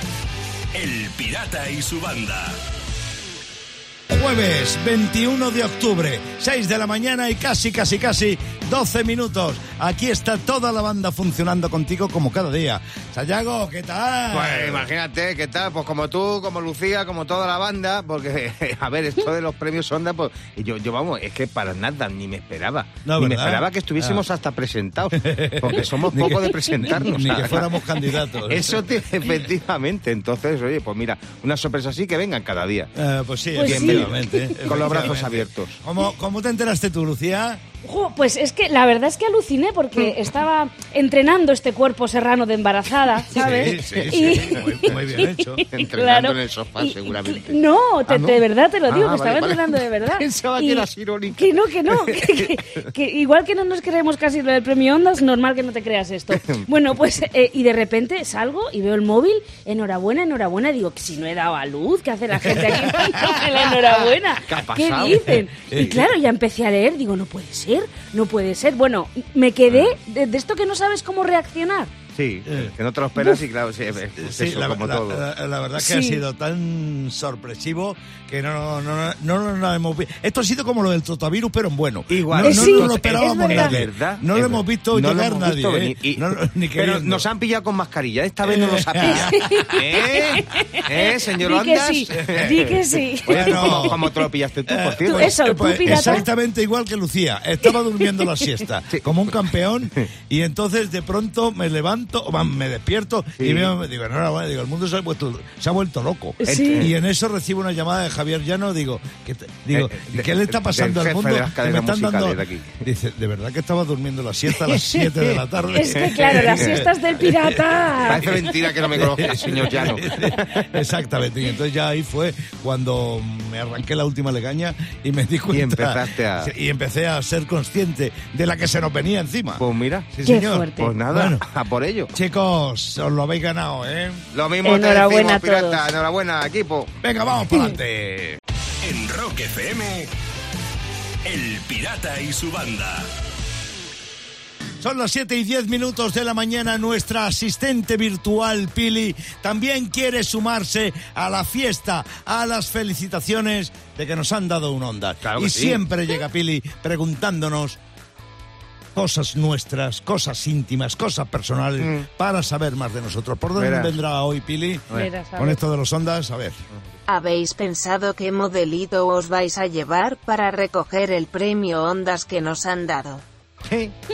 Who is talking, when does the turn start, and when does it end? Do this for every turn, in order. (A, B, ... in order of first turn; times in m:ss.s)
0:00.7-0:02.6 A
0:04.1-0:14.9 B
0:14.3-0:27.8 C
0:23.0-0:24.2 B
0:25.2-0:28.8 B
0:28.4-0:32.9 C
0:33.0-0:37.6 B
0:33.5-0:34.9 D
0:33.6-0:35.8 C
0:37.8-1:11.9 D
0:43.3-0:45.0 C
0:43.3-0:45.6 B
0:45.7-0:52.9 C
0:56.3-0:56.7 C
1:03.3-1:06.1 C
1:05.7-1:06.0 B
1:09.7-1:10.0 C
1:12.1-1:15.2 C
1:12.5-1:12.7 B
1:14.2-1:27.2 B
1:15.8-1:16.2 D
1:22.1-1:36.2 C
1:22.4-1:23.8 D
1:28.4-1:29.7 B
1:29.0-1:34.2 D
1:32.2-1:32.7 B
1:33.3-1:34.1 B
1:34.7-1:58.3 B
1:35.0-1:36.3 D
1:43.4-1:43.7 C
1:46.4-1:46.9 D
1:46.4-1:46.9 C
1:49.7-1:52.8 C
1:54.6-1:56.8 C
1:55.7-1:58.5 D
1:58.0-2:00.7 C
1:58.9-2:11.4 B
2:05.5-2:06.5 C
2:09.6-2:10.1 C
2:10.2-2:10.9 D
2:10.8-2:12.1 C
2:12.1-2:14.2 B
2:14.3-2:16.9 C
2:14.6-2:15.8 D
2:17.0-2:18.4 B
2:18.8-2:20.1 A
2:21.2-2:23.1 A
2:24.8-2:37.8 B
2:35.2-2:35.8 C
2:38.9-2:46.6 B
2:41.8-2:42.1 C
2:43.6-2:43.9 C
2:44.9-2:45.6 D
2:47.1-2:53.2 E
2:53.6-2:53.9 C